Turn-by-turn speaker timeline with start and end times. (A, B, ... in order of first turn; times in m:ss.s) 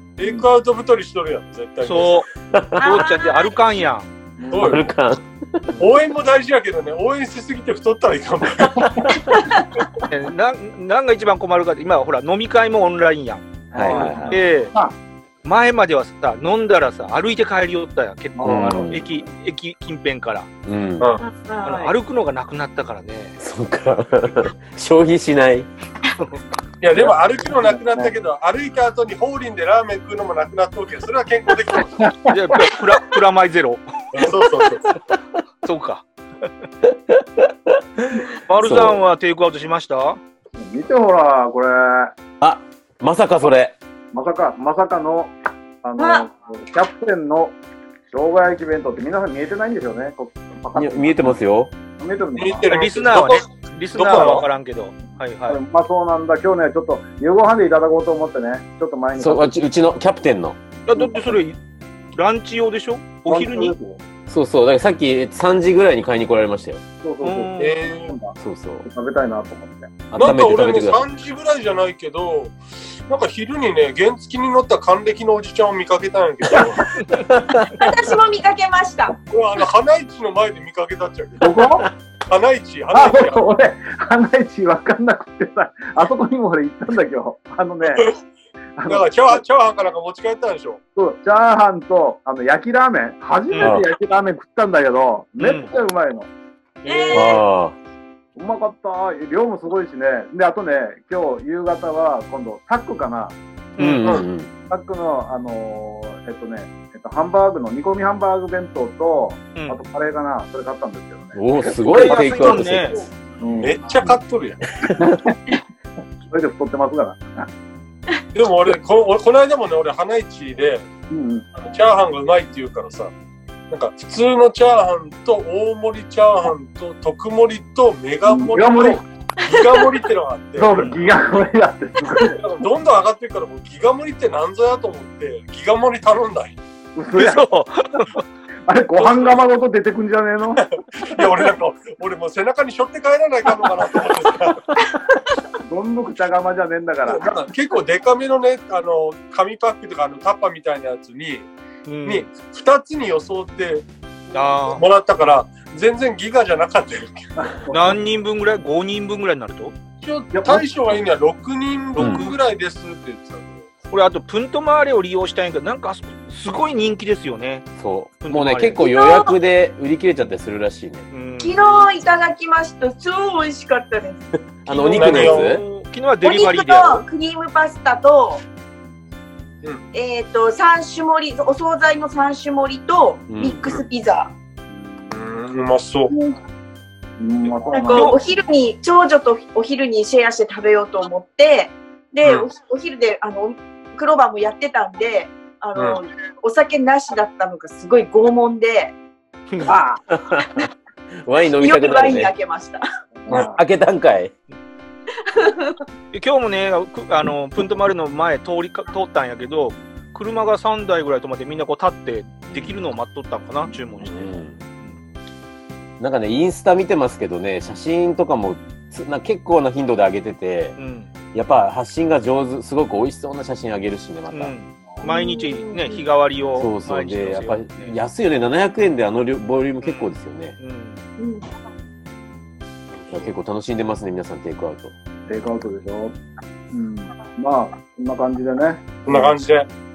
0:00.2-0:02.2 A
0:01.8-0:04.1 B
0:02.5-0:03.0 C
0:02.8-0:03.5 D
0:04.4-0:04.9 E
0:04.5-0:04.8 A
0:04.6-0:05.6 C
0:05.8-0:09.1 A
0:08.7-0:09.4 C
0:10.0-0:14.7 B
0:13.7-0:14.9 E
0:13.7-0:14.4 C
0:15.4-0:20.5 B
0:18.4-0:19.2 E
0:18.4-0:19.1 C
0:20.6-0:21.1 C
0:21.0-0:21.2 A
0:21.2-0:21.9 D
0:21.6-0:23.4 B
0:23.4-0:25.7 C
0:26.8-0:31.9 A
0:27.6-0:28.1 E
0:32.0-0:32.8 E
0:32.3-0:33.8 B
0:34.1-0:34.8 A
0:35.6-0:36.0 B
0:36.8-0:39.0 C
0:38.3-0:40.2 B
0:40.6-0:42.1 E
0:42.4-0:43.8 C
0:44.1-0:45.3 E
0:45.8-0:47.6 E
0:46.0-0:46.2 D
0:48.1-0:51.4 E
0:50.7-0:51.7 C
0:52.0-0:52.7 E
0:52.4-0:54.4 A
0:52.7-0:55.6 B
0:55.5-0:59.6 E
0:59.2-1:00.6 C
1:00.9-1:01.6 B
1:00.9-1:01.4 E
1:02.1-1:03.7 B
1:03.3-1:04.0 E
1:04.3-1:06.8 C
1:07.0-1:10.3 E
1:07.2-1:07.7 B
1:07.6-1:08.2 A
1:08.4-1:08.8 C
1:10.1-1:11.0 C
1:10.1-1:16.9 A
1:16.6-1:17.8 C
1:17.7-1:19.2 D
1:19.2-1:21.6 A
1:21.4-1:21.9 E
1:22.2-1:23.4 A
1:22.9-1:28.1 E
1:28.8-1:29.4 E
1:28.9-1:30.8 A
1:31.0-1:36.3 E
1:33.5-1:33.8 B
1:35.4-1:35.7 B
1:36.8-1:37.3 A
1:36.8-1:37.4 D
1:37.1-1:37.8 C
1:38.4-1:43.4 E
1:43.8-1:44.1 B
1:43.8-1:44.5 C
1:44.7-1:52.6 E
1:51.3-1:53.0 C
1:51.7-1:53.0 B
1:53.4-1:53.8 E
1:53.6-1:54.6 A
1:54.8-1:55.2 C
1:54.8-1:55.4 E
1:56.3-1:57.5 E
1:58.3-2:00.9 A
2:01.1-2:01.4 E
2:01.6-2:03.1 A
2:03.7-2:11.1 A
2:08.2-2:09.0 E
2:09.4-2:10.0 D
2:10.6-2:12.4 E
2:12.2-2:16.6 A
2:16.9-2:17.5 E
2:17.1-2:18.2 B
2:18.7-2:20.6 E
2:19.0-2:19.4 A
2:20.6-2:24.6 A
2:25.7-2:27.3 E
2:27.0-2:31.5 A
2:31.8-2:32.3 B
2:32.0-2:33.9 A
2:34.3-2:34.8 B
2:34.6-2:37.3 A
2:37.4-2:38.0 E
2:37.7-2:39.7 B
2:40.0-2:43.6 A
2:40.3-2:40.7 E
2:42.0-2:42.3 C
2:42.0-2:42.4 B
2:43.9-2:47.7 B
2:47.8-2:51.1 C
2:48.2-2:48.8 B
2:48.8-2:49.4 D
2:51.1-2:51.9 B
2:51.4-2:54.3 D
2:54.6-2:55.6 C
2:54.7-2:57.0 B
2:54.9-2:55.6 A
2:56.2-2:58.4 D
2:59.9-3:04.3 D
3:03.3-3:03.6 C
3:04.7-3:05.1 E
3:05.1-3:06.1 A
3:07.2-3:08.1 E
3:07.7-3:19.0 D
3:07.9-3:08.2 B
3:19.7-3:20.0 E
3:20.1-3:20.7 C
3:21.2-3:22.3 C
3:21.6-3:22.8 D
3:23.2-3:23.6 E
3:23.3-3:24.3 C
3:25.2-3:25.8 D
3:26.1-3:34.9 B
3:32.5-3:32.8 C
3:34.0-3:34.6 C
3:36.0-3:40.8 C
3:40.8-3:41.1 B
3:41.3-3:44.5 C
3:44.3-3:47.9 B
3:45.0-3:46.0 D
3:46.6-3:50.6 C
3:49.8-3:51.0 B
3:51.2-3:51.5 D
3:53.1-3:54.9 C
3:55.3-3:56.2 E
3:56.7-3:59.4 E
3:59.0-3:59.7 A